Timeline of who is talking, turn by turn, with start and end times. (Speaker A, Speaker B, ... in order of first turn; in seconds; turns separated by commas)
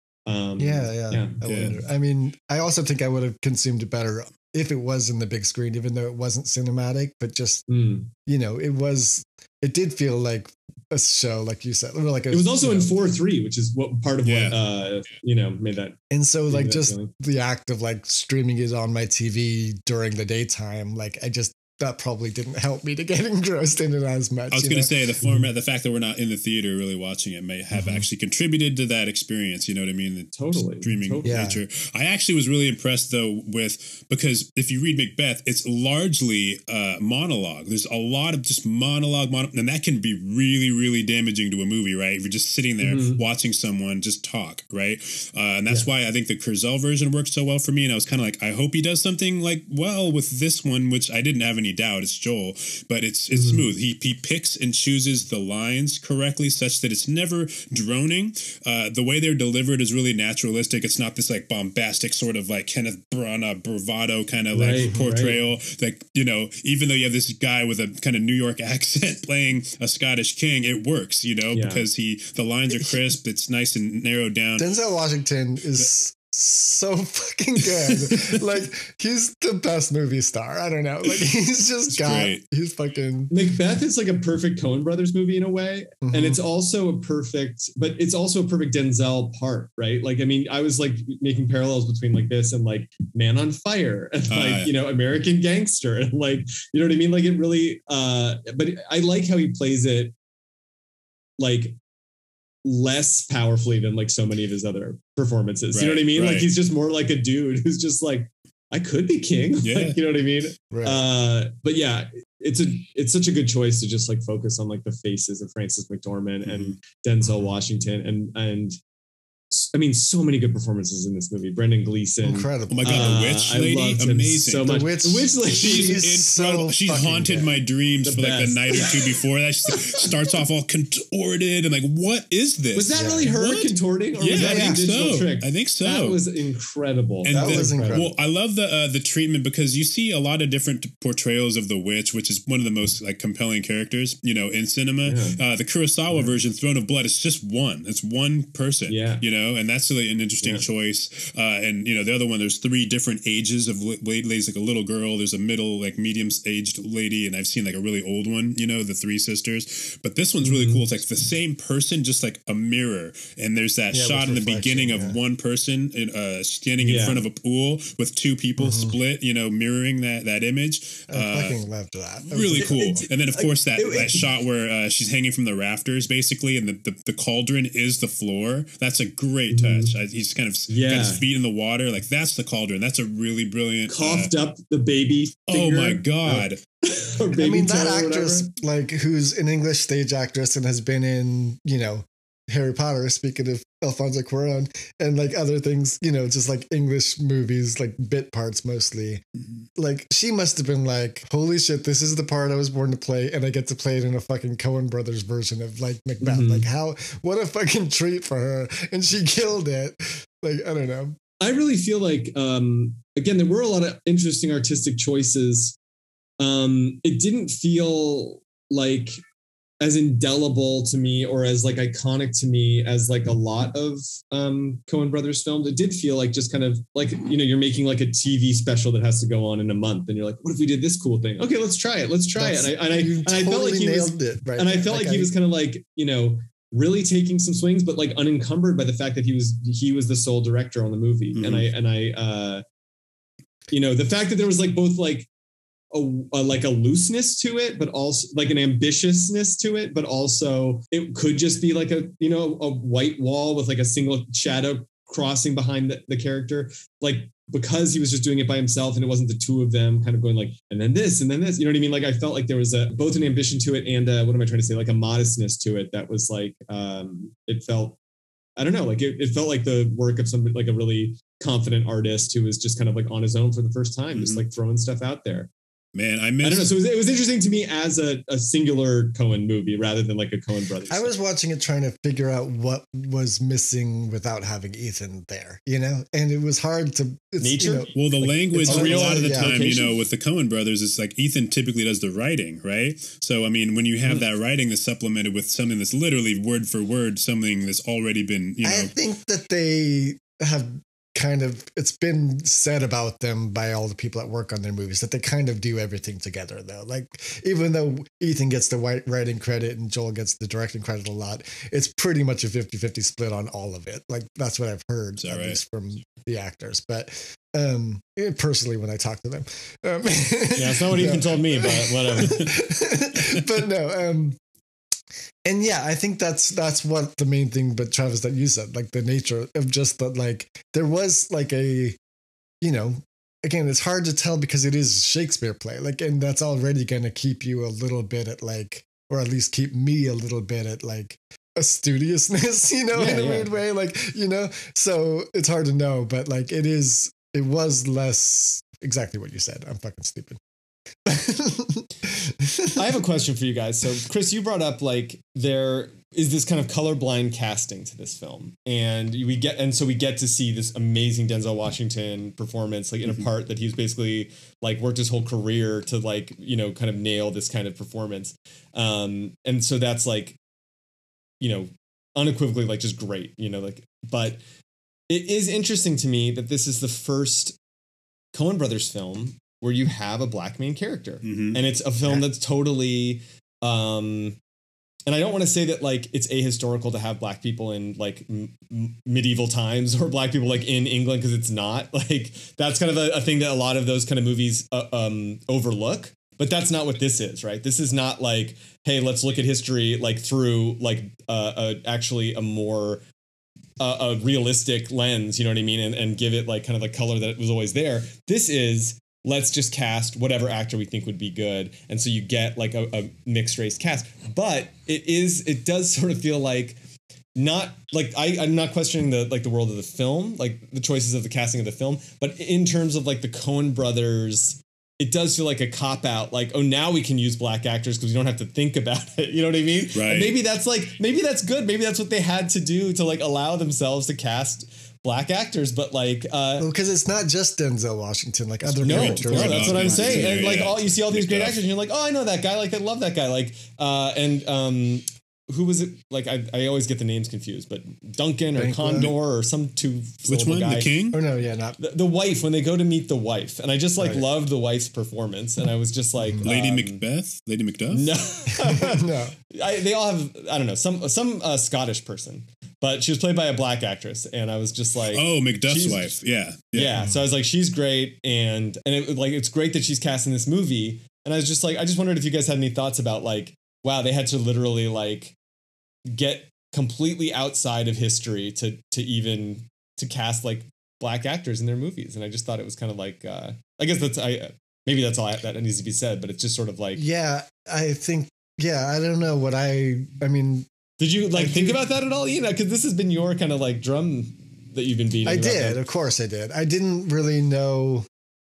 Speaker A: 0.3-1.3, Speaker B: 0.6-7.6, Speaker C: 1.4-1.8, Speaker A: 7.7-8.1, Speaker B: 8.2-12.9, Speaker A: 12.3-17.1, Speaker C: 14.2-14.6, Speaker B: 16.1-24.9, Speaker C: 24.5-74.8, Speaker B: 27.7-28.0, Speaker A: 30.3-31.4, Speaker B: 31.2-31.6, Speaker A: 42.8-43.2, Speaker A: 53.3-53.6, Speaker A: 64.5-65.4, Speaker A: 71.5-71.8, Speaker B: 74.6-83.3, Speaker C: 77.9-78.3, Speaker C: 81.9-82.4, Speaker A: 83.3-100.1, Speaker B: 86.0-86.4, Speaker C: 94.3-94.7, Speaker A: 101.4-101.8, Speaker A: 102.6-118.8, Speaker C: 105.7-106.5, Speaker C: 109.6-110.0, Speaker B: 110.7-111.0, Speaker C: 116.4-116.7, Speaker A: 119.5-126.0, Speaker B: 122.2-123.1, Speaker C: 122.7-124.8, Speaker B: 124.6-127.5, Speaker C: 125.5-136.2, Speaker A: 128.0-129.2, Speaker A: 132.7-138.1, Speaker B: 132.9-133.3, Speaker B: 134.3-134.8, Speaker C: 137.2-171.6, Speaker B: 137.3-138.1, Speaker A: 145.0-145.4, Speaker A: 148.9-149.2, Speaker A: 160.4-160.8, Speaker B: 163.9-165.2, Speaker A: 166.8-167.2, Speaker B: 168.6-169.0, Speaker B: 171.1-172.7, Speaker C: 172.3-184.3, Speaker A: 172.6-174.3, Speaker A: 179.5-179.9, Speaker A: 180.7-181.2, Speaker A: 183.9-188.5, Speaker C: 185.5-186.6, Speaker B: 187.4-199.2, Speaker B: 199.8-211.2, Speaker A: 206.2-206.7, Speaker A: 211.4-215.8, Speaker A: 216.4-219.2, Speaker A: 219.8-242.6, Speaker B: 232.4-235.3, Speaker C: 241.3-241.7, Speaker A: 243.7-245.3, Speaker A: 245.9-268.0, Speaker A: 268.6-275.5, Speaker C: 274.1-274.4, Speaker C: 275.9-276.8, Speaker A: 276.4-281.1, Speaker B: 280.9-287.9, Speaker A: 287.4-289.9, Speaker C: 287.9-298.9, Speaker B: 288.5-289.6, Speaker B: 298.6-324.4, Speaker C: 315.2-315.6, Speaker A: 320.5-322.4, Speaker B: 325.4-332.0, Speaker B: 332.6-350.4, Speaker A: 342.9-343.5, Speaker B: 351.1-352.8, Speaker A: 352.7-370.4, Speaker A: 371.4-374.4, Speaker A: 375.1-377.6, Speaker A: 378.3-384.4, Speaker C: 381.2-381.7, Speaker A: 385.1-403.0, Speaker A: 403.8-416.8, Speaker A: 417.4-436.7, Speaker C: 429.9-430.4, Speaker B: 436.6-440.5, Speaker C: 438.6-441.6, Speaker A: 438.8-450.9, Speaker B: 448.6-449.1, Speaker C: 450.2-451.2, Speaker B: 451.1-451.8, Speaker A: 451.8-457.0, Speaker B: 456.2-456.5, Speaker C: 456.4-458.1, Speaker A: 457.9-466.1, Speaker B: 458.6-459.3, Speaker C: 465.1-467.1, Speaker A: 466.7-475.3, Speaker A: 476.1-487.0, Speaker B: 486.9-490.7, Speaker A: 491.0-495.8, Speaker B: 491.3-491.8, Speaker B: 495.2-498.1